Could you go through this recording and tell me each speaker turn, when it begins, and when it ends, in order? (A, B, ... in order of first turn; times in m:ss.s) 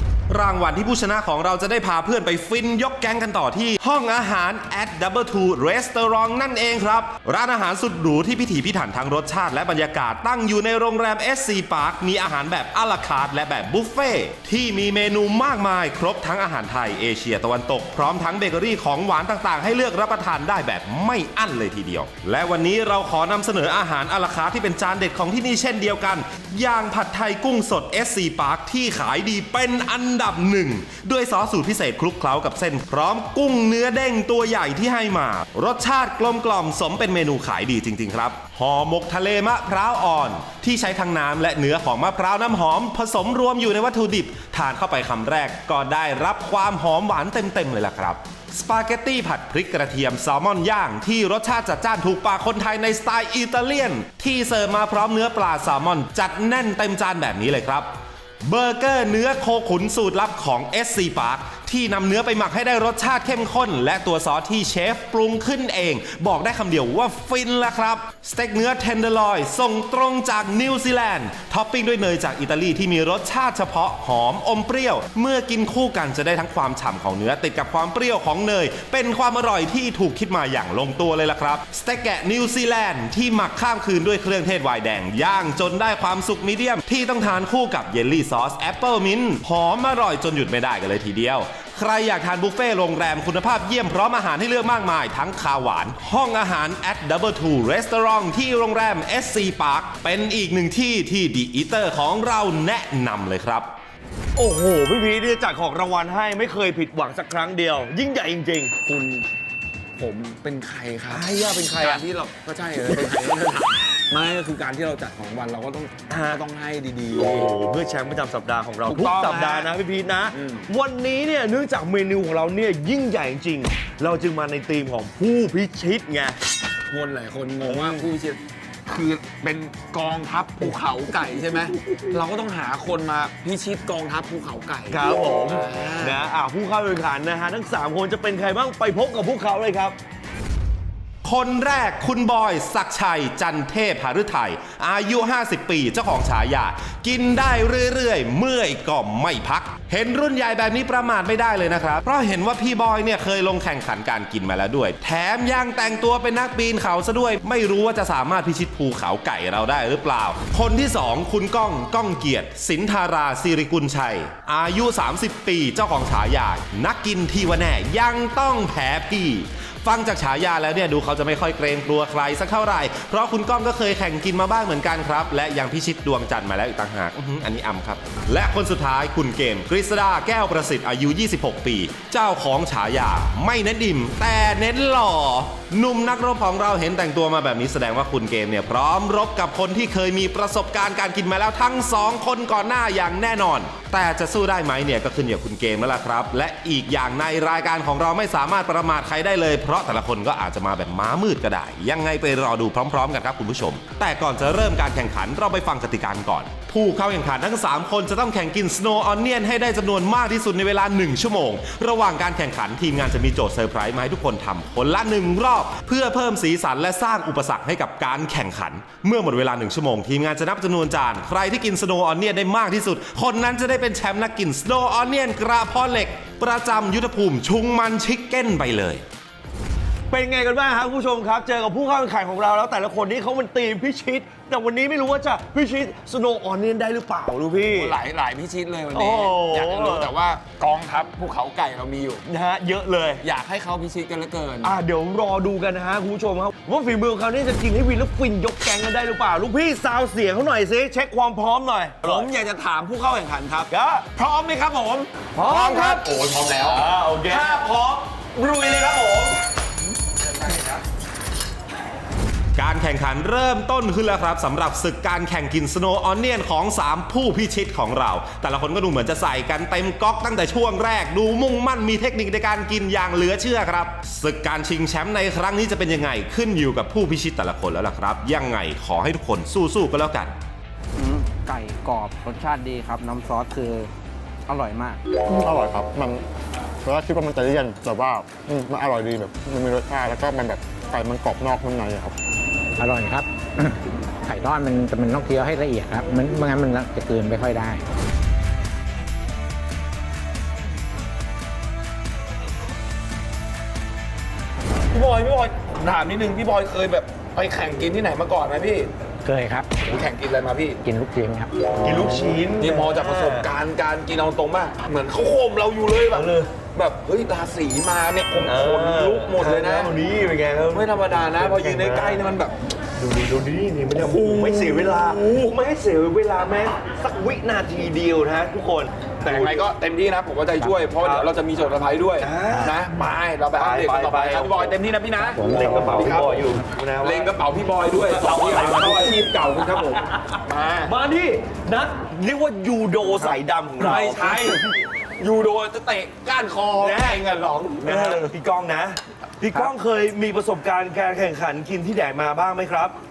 0:00.3-0:57.9 A
0:58.4-1:43.7 A
1:44.4-1:48.8 B
1:48.8-1:49.3 C
1:50.0-1:51.3 C
1:51.1-1:52.0 B
1:51.8-1:57.5 C
1:56.1-1:56.4 B
1:57.2-2:06.4 B
1:58.9-1:59.7 C
2:00.3-2:00.7 C
2:06.9-2:16.2 C
2:07.6-2:08.0 B
2:14.9-2:20.0 B
2:21.2-3:49.0 A
3:50.1-3:58.0 B
3:57.7-4:02.2 C
3:58.9-4:00.1 B
4:02.2-4:03.2 B
4:03.2-4:04.7 C
4:04.6-4:12.3 B
4:12.0-4:19.4 C
4:13.7-4:14.1 B
4:15.4-4:16.1 B
4:16.6-4:17.7 B
4:20.0-4:20.8 C
4:22.6-4:40.3 A
4:41.0-4:43.9 D
4:44.5-4:45.0 D
4:45.4-4:46.2 E
4:46.8-4:52.2 E
4:52.8-4:57.8 F
5:04.9-5:08.9 C
5:09.2-5:09.9 F
5:09.8-5:10.8 C
5:10.8-5:12.3 F
5:11.8-5:13.5 B
5:12.6-5:20.0 C
5:16.1-5:16.5 B
5:18.4-5:22.2 B
5:20.7-5:22.6 C
5:23.0-5:29.7 B
5:24.0-5:25.5 C
5:29.2-5:40.9 C
5:31.0-5:31.3 B
5:32.2-5:32.8 B
5:33.6-5:34.8 B
5:35.3-5:37.3 B
5:38.0-5:44.6 B
5:43.2-5:44.6 C
5:45.2-5:48.2 C
5:46.8-5:47.2 B
5:47.8-5:53.0 B